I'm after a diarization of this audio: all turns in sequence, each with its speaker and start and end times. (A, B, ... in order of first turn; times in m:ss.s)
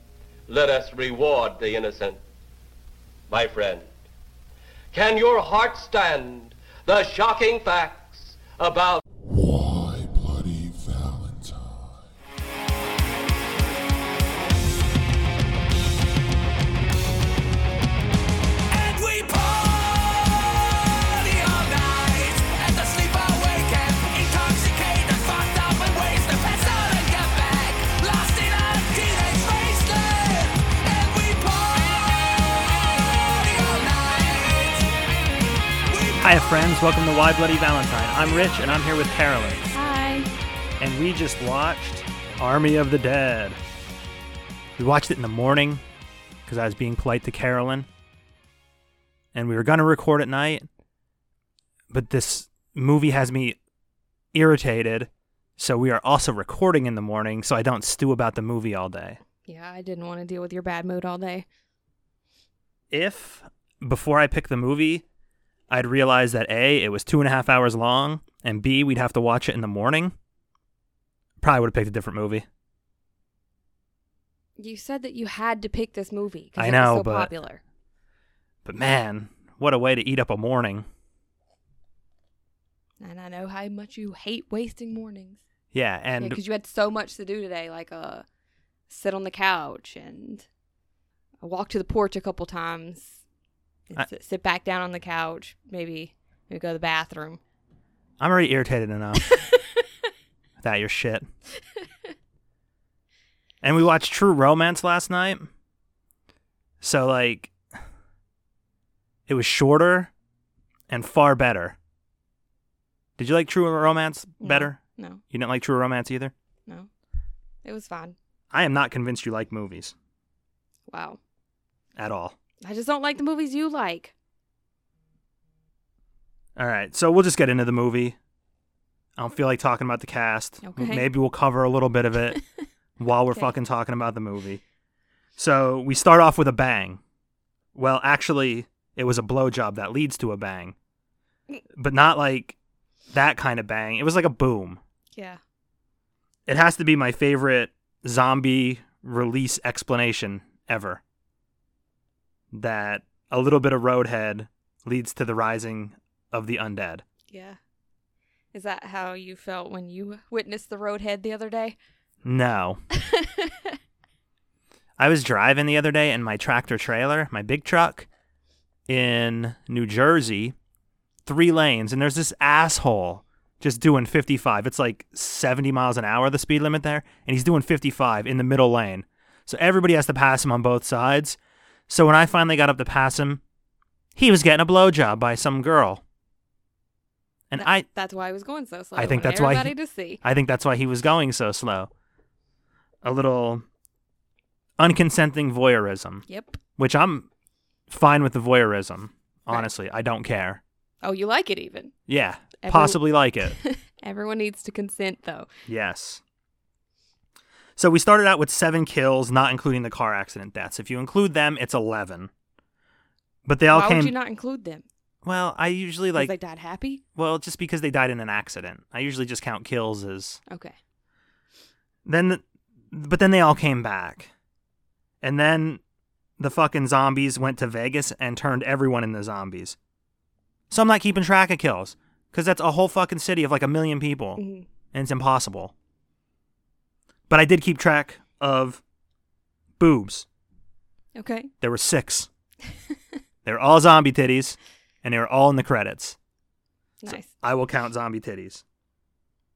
0:00.5-0:02.2 A
0:03.3-0:03.9 A
0:04.9-0:09.0 A
0:09.2-0:12.1 B
0:18.7-0:34.9 C
0:35.8-0:36.6 C
0:36.2-0:39.8 D
0:39.7-0:40.3 E
0:40.8-0:43.6 D
0:44.8-0:45.8 D
0:46.4-0:47.9 D
0:49.3-0:50.7 D
0:51.9-0:53.6 D
0:54.3-0:59.2 D
0:59.4-1:01.4 E
1:02.9-1:05.0 D
1:05.7-1:10.1 D
1:11.4-1:12.4 D
1:14.6-1:17.6 E
1:16.6-1:17.3 D
1:18.6-1:20.8 D
1:23.0-1:25.4 E
1:25.7-1:26.4 D
1:26.2-1:28.2 E
1:28.9-1:30.4 E
1:31.4-1:33.2 E
1:33.9-1:37.4 E
1:38.2-1:39.3 D
1:39.2-1:39.8 E
1:40.6-1:41.2 D
1:43.6-1:45.5 D
1:46.8-1:47.5 D
1:49.3-1:50.1 D
1:50.9-1:51.8 D
1:53.2-1:54.8 D
1:54.4-1:55.2 E
1:55.3-1:56.3 D
1:57.6-1:58.2 E
1:58.5-1:59.9 D
2:00.9-2:01.2 E
2:02.0-2:02.4 D
2:02.6-2:04.1 E
2:06.6-2:08.2 D
2:09.2-2:12.4 D
2:10.6-2:11.1 E
2:13.0-2:14.6 D
2:15.4-2:17.0 D
2:17.7-2:20.7 D
2:21.7-2:22.6 D
2:23.1-2:24.8 D
2:25.1-2:25.4 E
2:26.5-2:31.0 D
2:32.5-2:37.0 D
2:37.3-2:37.6 E
2:38.5-2:41.8 E
2:42.2-2:42.8 D
2:42.9-2:43.7 E
2:45.0-2:48.1 D
2:48.9-2:50.5 D
2:51.2-3:01.4 D
3:01.9-3:03.4 D
3:04.2-3:06.0 D
3:07.5-3:07.8 D
3:07.6-3:10.2 E
3:09.0-3:11.9 D
3:13.0-3:13.6 D
3:14.8-3:16.2 D
3:16.3-3:16.6 E
3:16.8-3:17.3 D
3:17.9-3:20.6 D
3:21.0-3:21.9 E
3:22.1-3:23.5 D
3:22.6-3:25.5 E
3:25.6-3:26.2 D
3:27.8-3:32.3 D
3:33.4-3:34.1 D
3:33.7-3:34.8 E
3:35.2-3:36.3 D
3:36.1-3:37.0 E
3:37.1-3:40.4 D
3:40.5-3:40.7 E
3:42.0-3:44.3 D
3:45.2-3:45.8 D
3:46.4-3:49.8 D
3:50.7-3:54.4 D
3:54.4-3:54.6 E
3:54.9-3:55.7 D
3:57.3-3:58.8 D
3:59.8-4:00.2 D
4:01.1-4:01.5 E
4:01.6-4:02.3 D
4:03.4-4:06.2 D
4:07.0-4:07.3 E
4:07.1-4:08.6 D